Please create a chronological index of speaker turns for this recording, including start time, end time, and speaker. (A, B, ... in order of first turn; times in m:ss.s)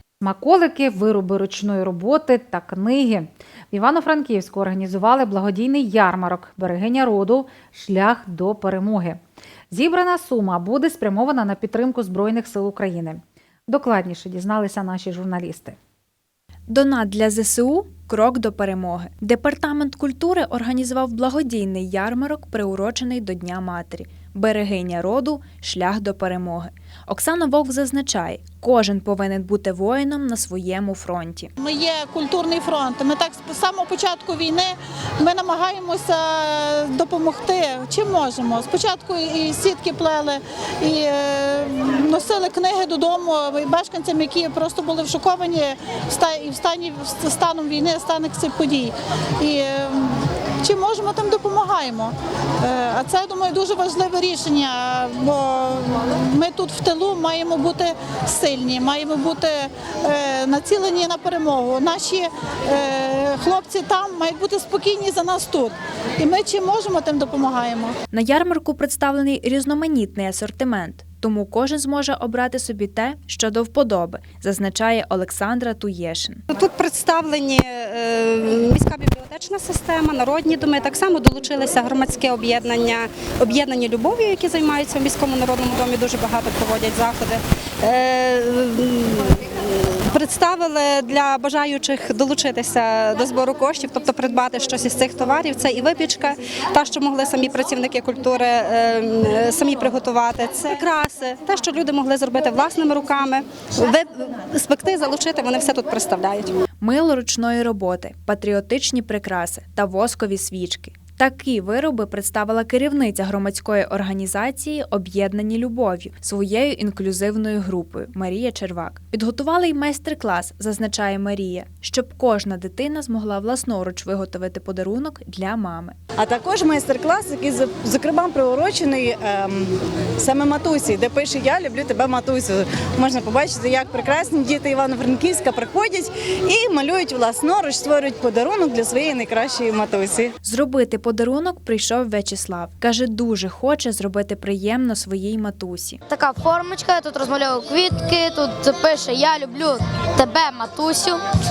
0:00.2-0:09.2 A
0:09.7-0:15.8 A
0:16.7-0:31.5 B
0:31.6-0:50.1 C
0:50.6-1:07.9 C
1:08.1-1:16.4 B
1:16.5-1:46.5 D
1:46.8-2:06.0 B
2:06.2-2:20.3 E
2:20.4-2:26.0 B
2:26.1-2:31.2 F